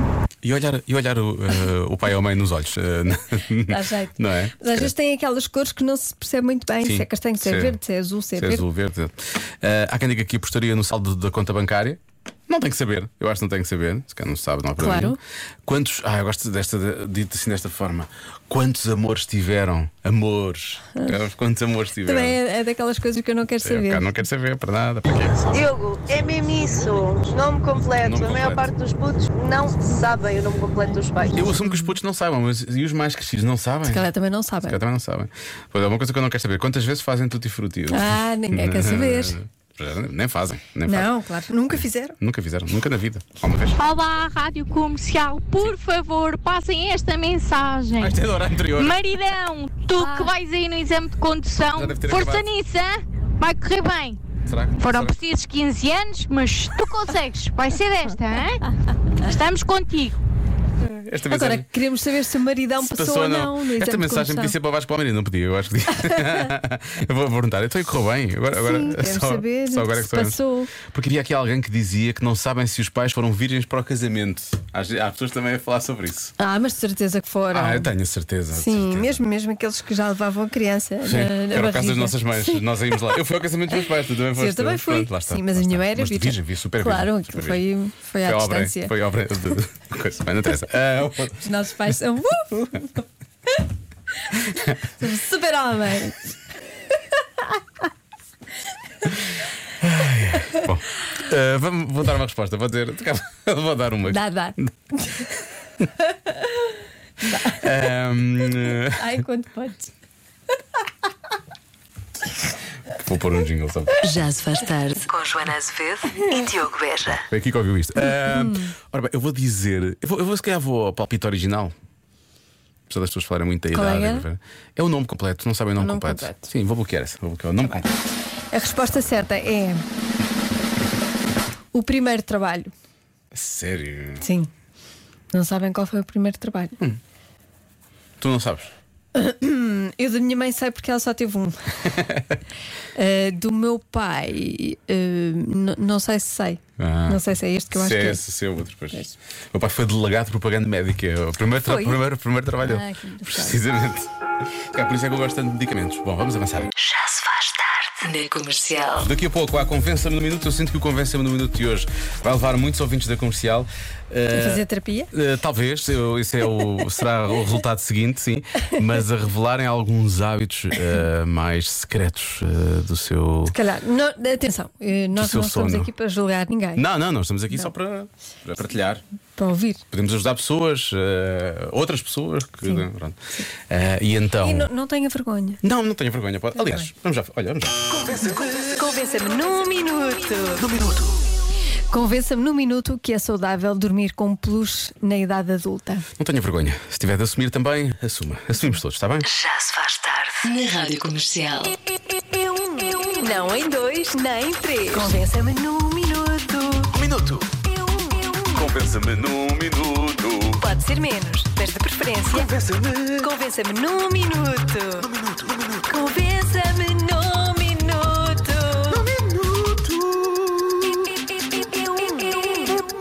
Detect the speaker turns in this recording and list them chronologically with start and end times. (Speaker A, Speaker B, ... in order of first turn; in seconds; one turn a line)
Speaker A: 0.4-4.9
Speaker B: 3.7-8.7
Speaker A: 6.8-7.8
Speaker A: 8.4-22.4
Speaker B: 14.8-15.2
Speaker B: 22.0-24.2
Speaker A: 23.6-26.9
Speaker C: 25.5-31.4
Speaker A: 28.0-28.7
Speaker B: 30.9-31.9
Speaker A: 31.3-34.1
Speaker B: 33.9-34.8
Speaker A: 34.6-41.1
Speaker B: 37.9-39.4
Speaker B: 40.9-42.2
Speaker A: 42.2-43.8
Speaker D: 43.8-48.2
Speaker A: 48.0-49.1
Speaker D: 48.7-54.2
Speaker A: 51.7-52.5
Speaker A: 54.5-55.2
Speaker D: 54.8-58.6
Speaker D: 59.2-60.2
Speaker A: 60.8-61.7
Speaker B: 61.3-64.5
Speaker A: 62.8-76.3
Speaker B: 68.5-70.7
Speaker B: 76.4-77.9
Speaker A: 77.5-79.2
Speaker B: 78.5-83.0
Speaker A: 81.0-87.6
Speaker B: 83.8-88.9
Speaker A: 88.2-91.5
Speaker B: 91.4-93.0
Speaker B: 94.9-96.3
Speaker A: 99.8-104.7
Speaker B: 104.1-105.3
Speaker A: 107.3-109.0
Speaker B: 108.9-109.9
Speaker A: 112.9-114.0
Speaker E: 114.0-117.2
Speaker A: 117.2-121.7
Speaker B: 118.3-118.7
Speaker A: 122.9-128.0
Speaker B: 123.7-124.3
Speaker B: 125.8-126.4
Speaker B: 128.5-129.8
Speaker B: 131.7-132.7
Speaker A: 133.3-134.3
Speaker B: 134.2-134.5
Speaker B: 135.3-136.8
Speaker A: 138.2-138.7
Speaker B: 139.1-142.0
Speaker B: 142.9-148.2
Speaker A: 146.8-154.1
Speaker B: 151.6-152.0
Speaker B: 152.6-153.6
Speaker A: 154.7-156.7
Speaker E: 156.8-159.1
Speaker A: 159.0-173.6
Speaker B: 164.3-165.1
Speaker B: 173.5-176.9
Speaker A: 175.2-175.9
Speaker A: 176.8-179.0
Speaker B: 179.4-179.8
Speaker A: 179.9-183.2
Speaker A: 183.7-184.7
Speaker B: 184.4-185.6
Speaker A: 185.6-188.5
Speaker B: 188.1-190.7
Speaker A: 190.6-191.2
Speaker B: 191.9-196.1
Speaker A: 196.2-199.3
Speaker E: 199.2-201.8
Speaker B: 202.2-206.9
Speaker A: 206.9-207.5
Speaker B: 207.7-208.6
Speaker A: 208.5-210.6
Speaker B: 210.6-212.5
Speaker A: 212.3-213.3
Speaker B: 213.2-215.1
Speaker A: 215.0-215.8
Speaker B: 215.9-219.0
Speaker A: 218.9-221.0
Speaker B: 221.7-222.8